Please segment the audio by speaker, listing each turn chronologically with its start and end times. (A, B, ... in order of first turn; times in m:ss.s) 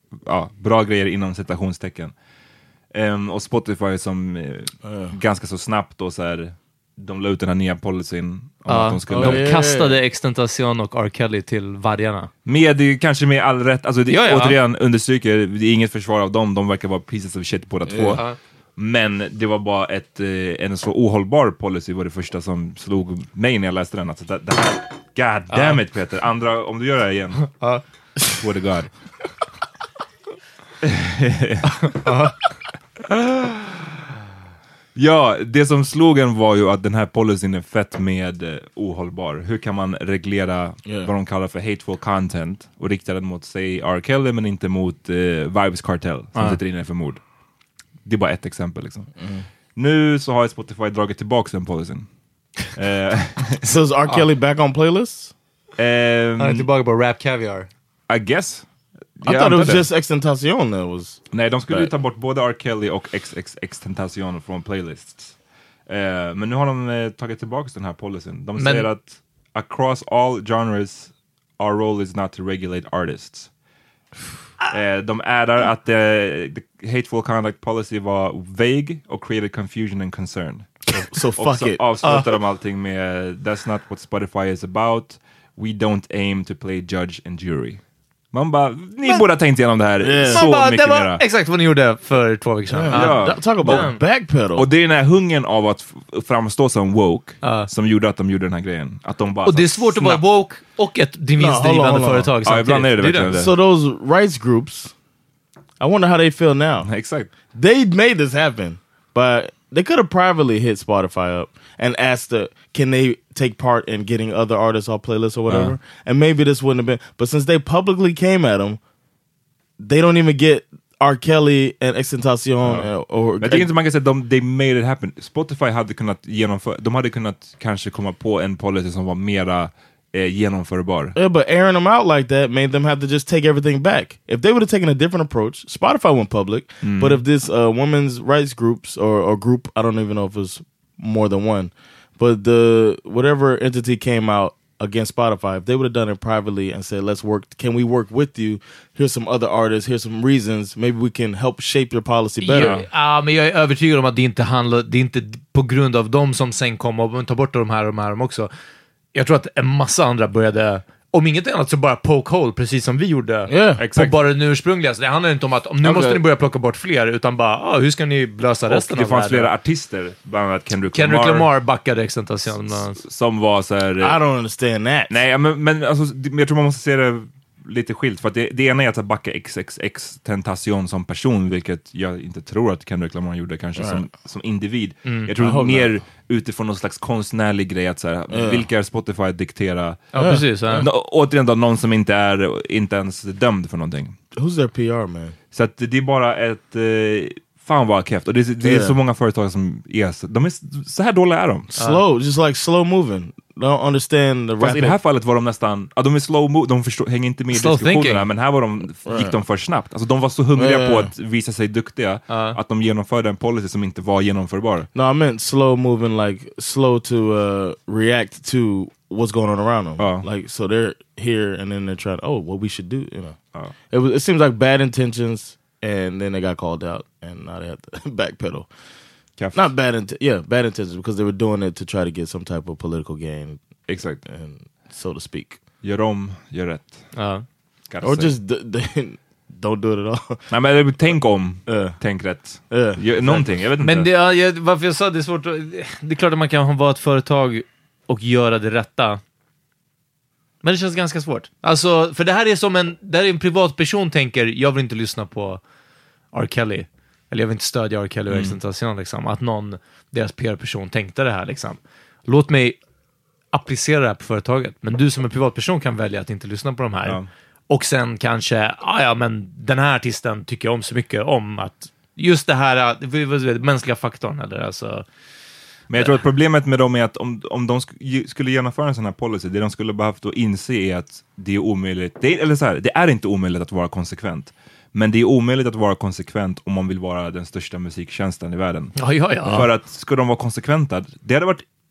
0:00.2-0:02.1 A
0:02.9-0:09.4 A
0:04.8-0:05.1 B
0:08.7-0:12.3 C
0:09.1-0:10.0 B
0:12.4-0:18.2 A
0:14.1-0:14.6 C
0:17.9-0:18.2 B
0:18.8-0:27.5 A
0:25.5-0:25.8 C
0:27.5-0:27.8 C
0:28.3-0:29.0 A
0:30.8-0:32.0 A
0:31.9-0:32.4 C
0:33.0-0:33.8 A
0:34.9-0:47.2 A
0:40.8-0:41.1 B
0:48.0-0:49.1 A
0:49.2-0:49.4 B
0:49.8-0:53.7 A
0:53.6-0:55.3 B
0:55.8-0:56.7 A
0:56.4-0:57.7 C
0:58.1-0:58.7 A
0:59.2-0:59.8 A
0:59.2-1:01.9 B
1:01.3-1:05.4 A
1:05.9-1:13.5 A
1:08.6-1:08.9 C
1:14.7-1:27.8 A
1:20.9-1:22.2 B
1:28.3-1:31.2 A
1:30.0-1:30.4 B
1:30.3-1:34.0 C
1:32.7-1:34.6 B
1:32.9-1:40.2 A
1:37.4-1:37.7 C
1:39.4-1:43.3 C
1:41.4-1:42.3 B
1:42.4-1:43.5 A
1:43.3-1:44.9 B
1:45.8-1:46.9 B
1:46.8-1:47.3 A
1:47.5-1:58.8 B
1:55.5-1:55.8 A
1:59.8-2:03.7 B
2:03.4-2:11.2 A
2:11.1-2:32.8 B
2:16.8-2:17.2 A
2:32.4-2:38.5 C
2:32.6-2:32.9 A
2:39.1-2:49.5 C
2:43.5-2:43.8 B
2:43.8-2:44.2 A
2:45.8-2:46.2 B
2:48.7-2:51.5 A
2:50.9-2:53.0 C
2:52.9-2:54.2 A
2:54.0-2:55.2 B
2:55.1-3:14.2 A
3:05.4-3:06.0 B
3:08.3-3:08.6 B
3:10.1-3:10.8 C
3:10.2-3:10.9 B
3:14.3-3:15.4 B
3:15.5-3:21.7 A
3:18.6-3:19.0 B
3:21.7-3:24.9 B
3:24.6-3:34.9 A
3:27.5-3:28.2 C
3:29.0-3:29.4 B
3:30.5-3:31.1 B
3:32.3-3:32.6 C
3:34.9-3:43.4 B
3:40.0-3:40.2 A
3:43.9-3:48.7 B
3:49.4-3:49.7 A
3:49.5-3:53.6 B
3:53.9-3:54.2 A
3:54.2-3:55.6 B
3:55.8-3:57.1 A
3:57.1-3:57.4 C
3:57.9-3:58.3 A
3:58.0-4:00.4 B
4:00.5-4:04.1 A
4:01.6-4:02.0 B
4:02.7-4:03.5 B
4:03.8-4:09.2 C
4:10.6-4:15.6 C
4:16.3-4:22.8 C
4:18.3-4:18.6 A
4:23.5-4:35.0 C
4:35.9-4:51.6 A
4:35.9-4:36.2 C
4:49.0-4:49.7 C